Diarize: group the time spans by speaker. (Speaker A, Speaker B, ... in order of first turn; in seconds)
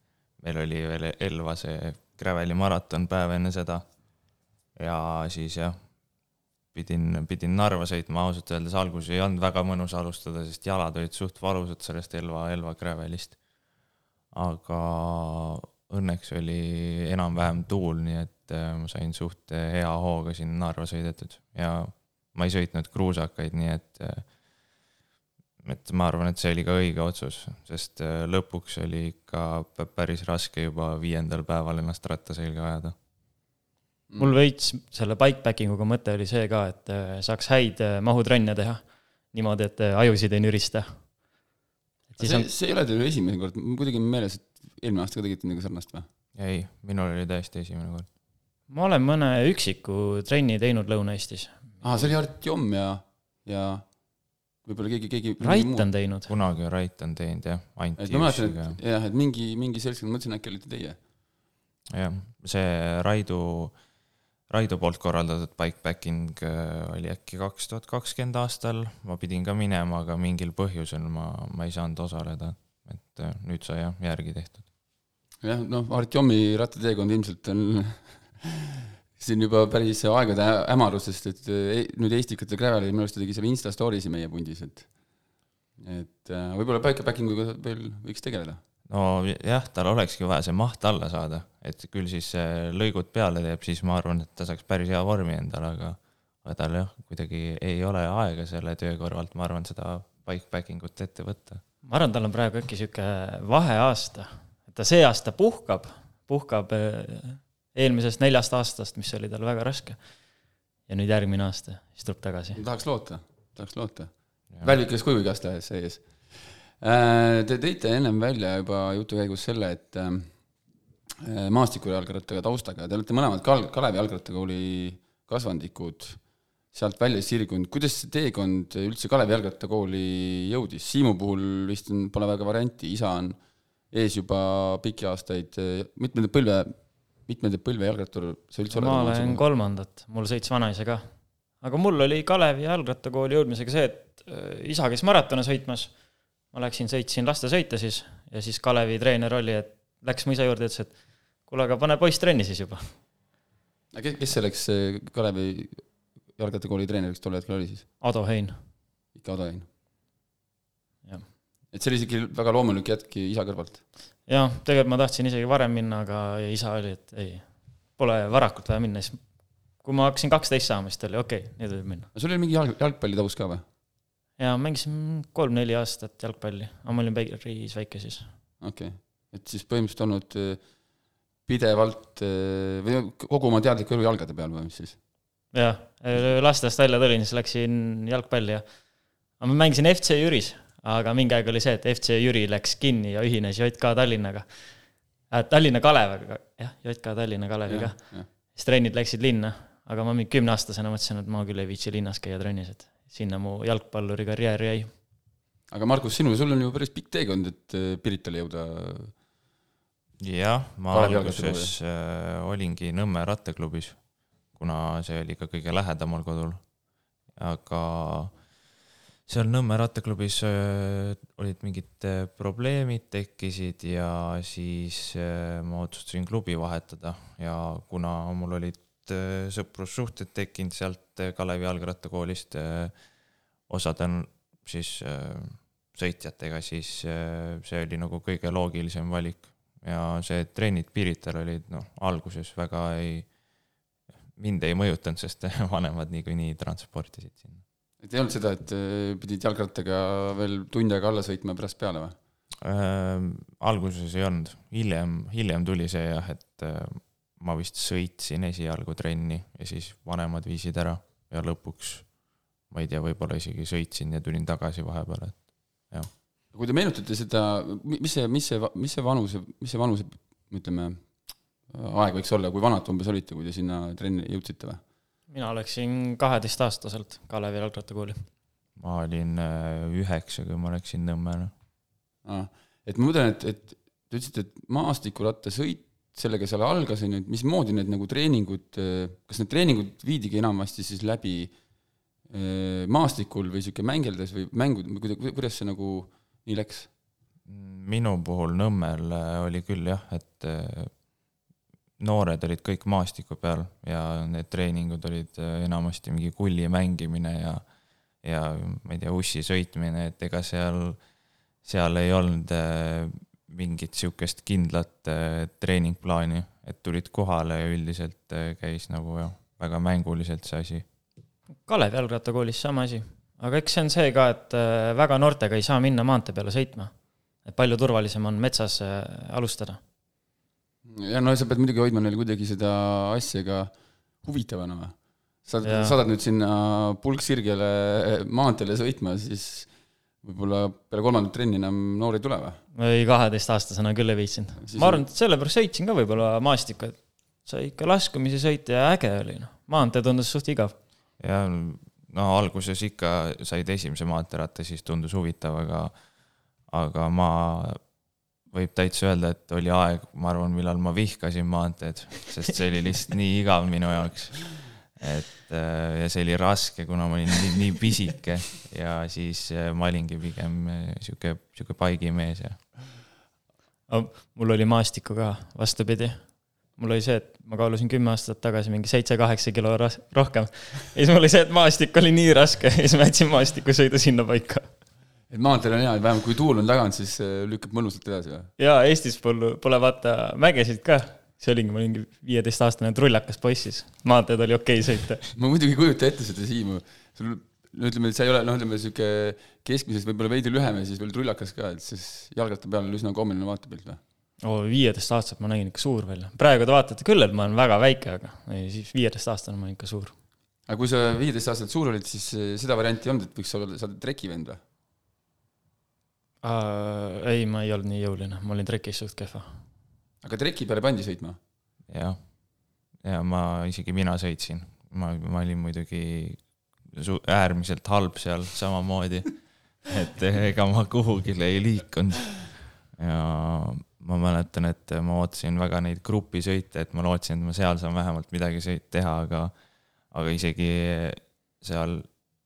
Speaker A: 0.4-3.9, 4.8-5.8, 6.7-13.4, 14.3-24.3, 25.6-33.0, 46.4-48.1, 56.3-58.8, 61.9-63.8, 64.5-74.6, 88.9-101.6, 210.2-214.0, 214.5-216.6, 217.4-218.3, 219.3-232.9, 233.7-243.3, 244.4-247.6, 252.6-262.1, 262.7-266.1, 278.8-281.5, 297.5-300.9, 302.0-307.6, 308.2-311.0, 311.6-320.9, 351.2-355.9, 356.7-357.8, 358.5-372.7, 421.9-422.2, 423.0-439.5, 440.1-442.1
Speaker B: 34.2-40.9, 42.1-42.5, 48.7-51.8, 55.4-56.3, 101.8-110.0, 110.9-112.6, 138.7-141.1, 141.6-145.9, 146.5-150.9, 151.5-152.9, 158.0-158.6, 164.3-169.2, 169.8-172.1, 174.4-178.3, 185.5-188.7, 189.4-194.7, 195.3-204.9, 275.3-278.2, 321.7-326.9, 327.4-329.8, 335.6-335.9, 342.8-350.8, 373.9-376.2, 376.8-384.7, 388.6-395.2, 404.4-410.1, 416.4-419.6
Speaker C: 42.2-46.0, 51.8-53.9, 54.6-55.9, 58.0-61.0, 75.4-84.9, 85.8-88.6, 112.5-120.3, 121.2-126.2, 126.7-133.4, 133.9-139.4, 153.9-157.9, 159.2-159.7, 161.7-163.8, 172.1-173.6, 178.6-180.6, 181.5-185.0, 197.7-198.3, 205.7-209.1, 210.9-211.7, 248.0-252.2, 266.5-271.1, 271.7-274.8, 282.2-291.5, 292.3-296.9, 330.9-339.7, 340.2-342.6, 344.6-345.1, 385.3-388.5, 395.4-404.0, 410.7-414.6, 420.2-421.4